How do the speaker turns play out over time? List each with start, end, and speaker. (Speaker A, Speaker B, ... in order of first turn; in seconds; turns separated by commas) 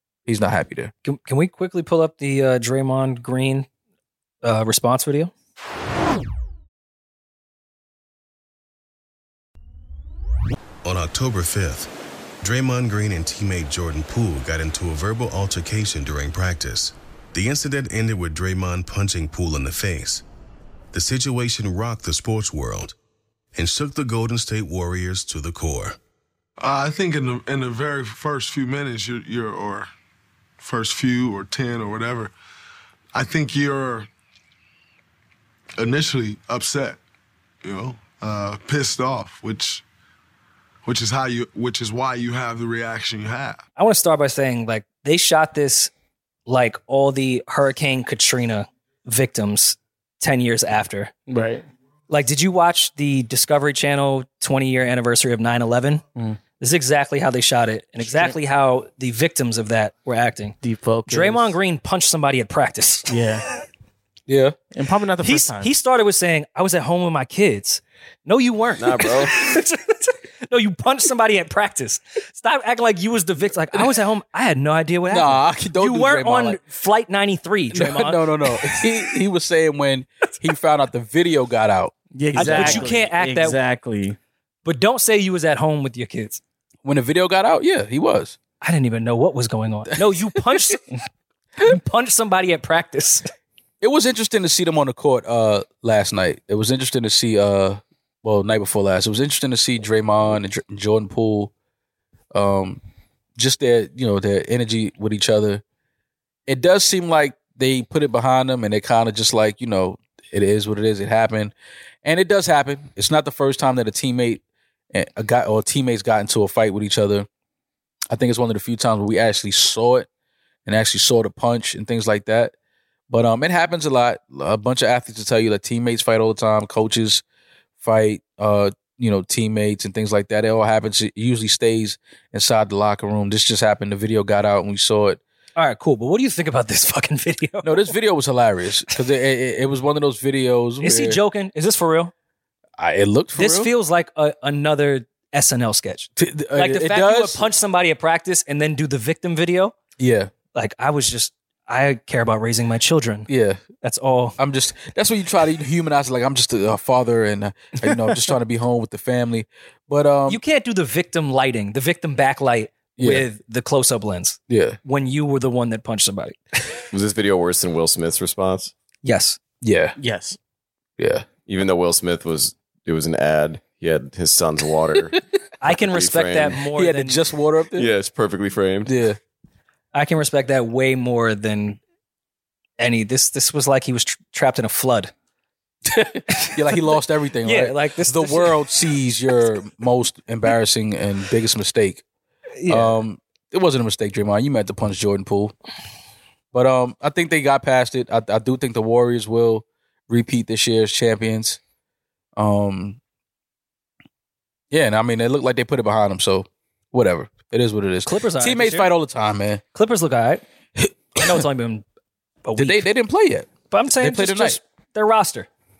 Speaker A: 0.2-0.9, Speaker B: 1.0-3.7, Speaker B: 4.4-5.3, Speaker C: 10.8-20.2, Speaker C: 20.9-22.9, Speaker C: 23.5-26.0, Speaker D: 26.6-29.9, Speaker D: 30.6-32.3, Speaker D: 33.1-34.1, Speaker D: 35.8-37.0, Speaker D: 37.6-39.8, Speaker D: 40.8-43.6, Speaker B: 43.8-45.9, Speaker B: 46.5-51.1, Speaker E: 51.3-51.6, Speaker B: 52.1-56.0, Speaker B: 56.6-60.5, Speaker E: 58.0-58.4, Speaker E: 60.6-61.6, Speaker B: 61.1-63.1, Speaker E: 63.1-63.4, Speaker A: 64.3-64.5, Speaker E: 64.7-65.7, Speaker B: 65.2-78.9, Speaker F: 68.8-69.4, Speaker A: 75.1-76.6, Speaker A: 77.7-82.9, Speaker E: 82.1-84.2, Speaker B: 82.3-83.6, Speaker B: 84.6-86.4, Speaker A: 86.8-88.4, Speaker B: 88.6-90.9, Speaker B: 91.6-93.2, Speaker A: 93.8-101.5, Speaker A: 102.3-102.8, Speaker A: 103.4-105.6, Speaker A: 106.5-111.5, Speaker A: 112.0-114.4, Speaker A: 114.9-117.3, Speaker A: 118.1-120.1, Speaker A: 120.7-122.5, Speaker A: 123.1-127.2, Speaker A: 127.8-135.2, Speaker B: 135.6-137.9, Speaker A: 137.6-141.2, Speaker B: 140.8-142.1, Speaker A: 142.8-143.7, Speaker B: 143.3-149.8, Speaker A: 146.2-147.4, Speaker A: 150.0-150.3, Speaker B: 150.5-153.3, Speaker A: 153.3-153.6, Speaker B: 153.8-154.3, Speaker A: 154.4-160.4, Speaker B: 160.3-166.8, Speaker A: 163.0-163.3, Speaker A: 164.5-164.8, Speaker F: 166.9-168.7, Speaker B: 169.0-169.4, Speaker A: 169.6-169.9, Speaker E: 170.0-170.4, Speaker A: 171.0-171.2, Speaker F: 171.5-175.1, Speaker B: 175.6-177.2, Speaker F: 175.8-176.6, Speaker A: 176.8-177.9, Speaker F: 177.7-178.9, Speaker A: 178.8-179.2, Speaker B: 179.9-181.8, Speaker B: 182.8-185.1, Speaker A: 185.9-192.0, Speaker B: 186.3-186.8, Speaker B: 187.4-188.6, Speaker B: 192.6-192.9, Speaker A: 192.7-195.5, Speaker A: 196.5-201.6, Speaker A: 202.3-203.0, Speaker A: 204.7-209.6, Speaker B: 208.1-208.9, Speaker B: 209.7-210.4, Speaker A: 210.8-211.2, Speaker B: 211.1-211.8, Speaker B: 212.4-212.8, Speaker A: 212.6-214.6, Speaker B: 213.7-215.5